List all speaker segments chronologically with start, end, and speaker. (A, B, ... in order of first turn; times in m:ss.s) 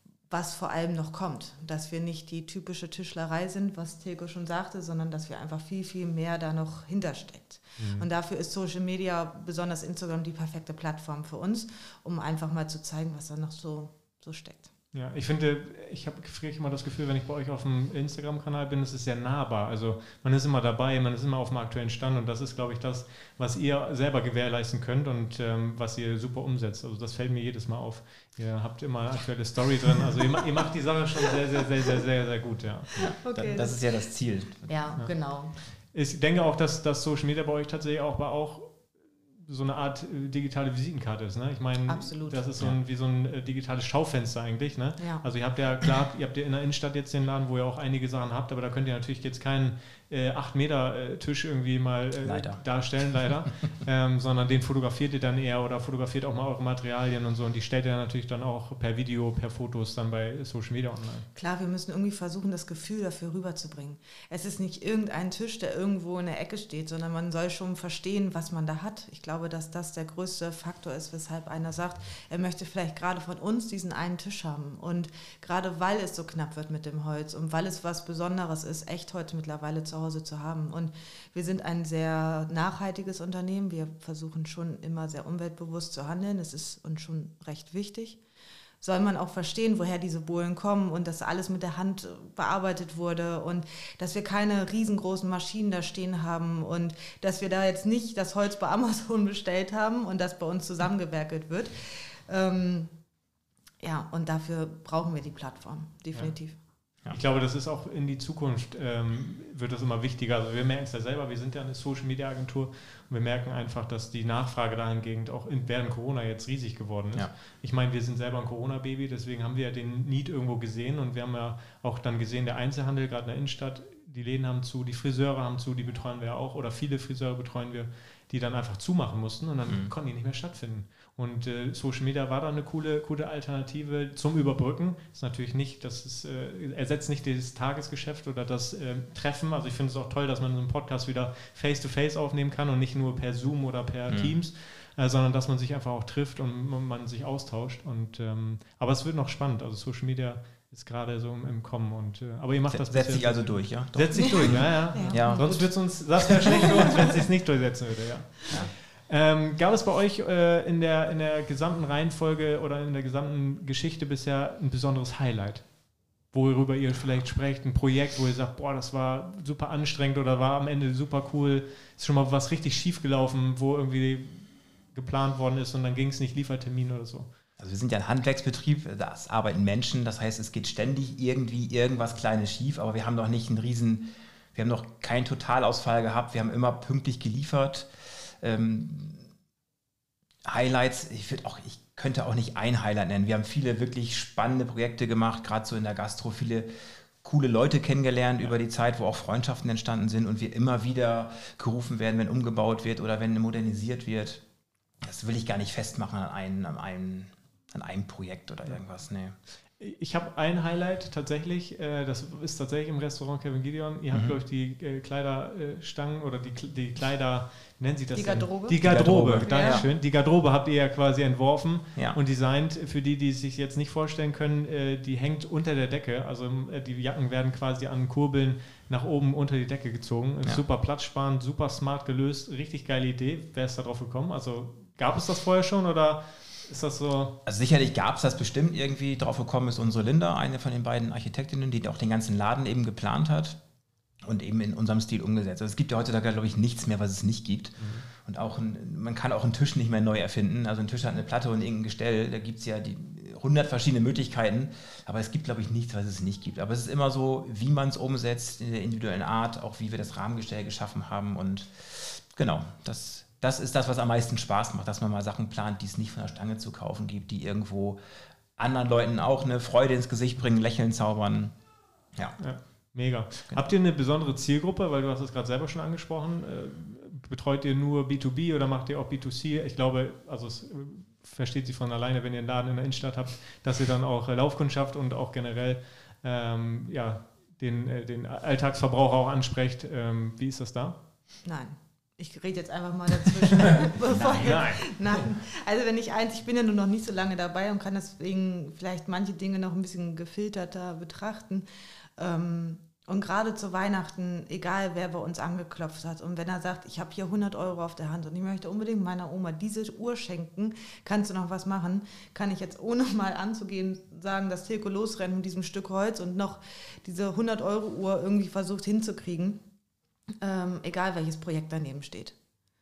0:00.3-0:14.7 A
0:07.8-0:08.1 B
0:14.9-0:33.0 B
0:33.0-0:34.8 C
0:33.2-0:33.9 A
0:34.7-0:35.6 A
0:35.0-1:01.3 B
0:41.9-0:42.5 A
0:45.0-0:45.2 A
0:52.2-0:52.8 C
1:01.4-1:28.2 A
1:28.8-1:43.0 A
1:43.8-1:46.6 A
1:46.2-2:57.3 B
2:09.6-2:09.9 C
2:24.1-2:24.4 C
2:32.7-2:35.7 C
2:34.4-2:36.7 A
2:57.6-3:09.3 C
3:10.5-3:16.7 C
3:17.2-3:24.4 C
3:25.0-3:29.4 C
3:29.8-3:57.4 B
3:34.1-3:34.4 C
3:38.1-3:38.8 A
3:38.8-3:39.9 C
3:39.4-3:39.9 A
3:57.5-4:03.6 C
4:04.2-4:28.0 C
4:07.8-4:08.0 B
4:28.6-4:31.5 C
4:32.1-4:32.4 C
4:32.4-4:51.0 B
4:51.4-5:19.6 A
4:53.6-4:55.2 B
4:54.1-4:54.6 C
5:20.4-5:22.4 A